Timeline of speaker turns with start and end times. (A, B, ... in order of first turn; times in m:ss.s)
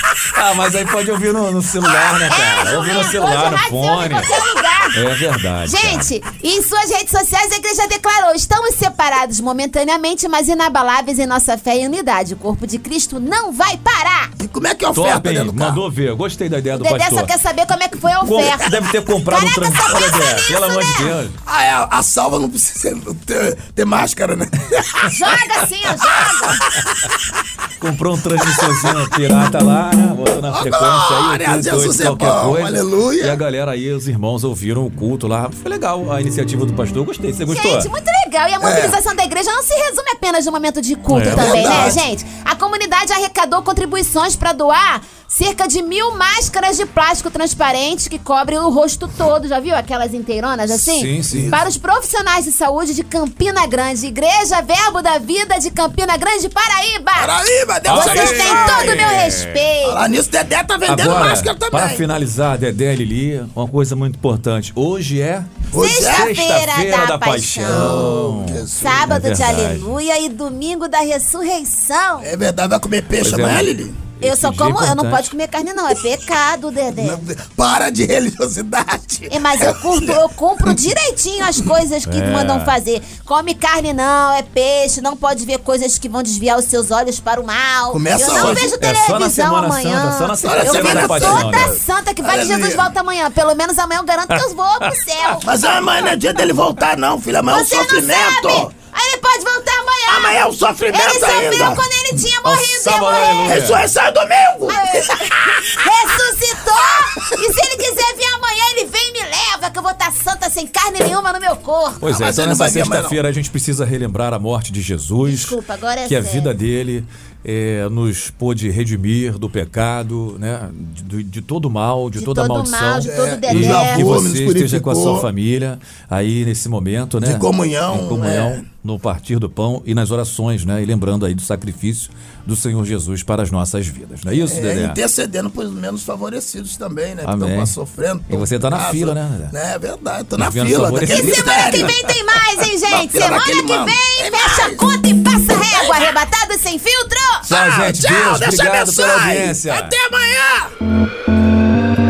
0:00.3-0:06.1 A
0:02.2-0:05.0 B
0:05.6-0:14.3 B
0:14.4-0:15.8 C
0:14.9-0:17.3 A
0:16.7-0:21.2 B
0:18.2-0:21.4 A
0:21.4-0:26.5 C
0:25.1-0:26.6 B
0:27.8-0:37.9 A
0:30.5-0:33.4 C
0:37.5-0:57.4 B
0:38.6-0:39.0 C
0:41.1-0:42.0 A
0:41.2-0:42.0 C
0:50.7-0:51.6 A
0:51.3-0:51.6 C
0:57.1-0:59.1 C
0:57.8-0:59.7 A
0:57.9-1:00.0 B
0:59.8-1:02.0 C
1:00.8-1:09.9 A
1:05.7-1:06.3 C
1:05.7-1:08.1 B
1:07.7-1:09.2 C
1:08.7-1:12.3 B
1:12.2-1:14.0 C
1:13.2-1:15.3 A
1:14.2-1:17.2 B
1:16.9-1:20.8 C
1:19.3-1:35.5 B
1:22.0-1:22.8 A
1:27.9-1:28.6 C
1:28.2-1:31.7 A
1:30.4-1:32.9 C
1:34.3-1:34.9 A
1:35.4-1:38.7 C
1:37.5-1:43.7 B
1:40.1-1:41.8 C
1:42.4-1:43.9 A
1:43.4-1:45.1 C
1:44.6-1:52.1 B
1:52.0-2:15.0 A
1:52.0-1:53.2 C
1:55.2-1:56.5 B
2:02.1-2:04.1 B
2:03.0-2:05.3 C
2:07.2-2:08.6 C
2:14.4-2:22.0 C
2:17.2-2:17.8 A
2:18.3-2:19.6 A
2:20.4-2:22.0 A
2:21.0-2:27.5 B
2:22.9-2:24.8 C
2:25.6-2:26.1 C
2:27.5-2:30.0 A
2:27.5-2:30.7 C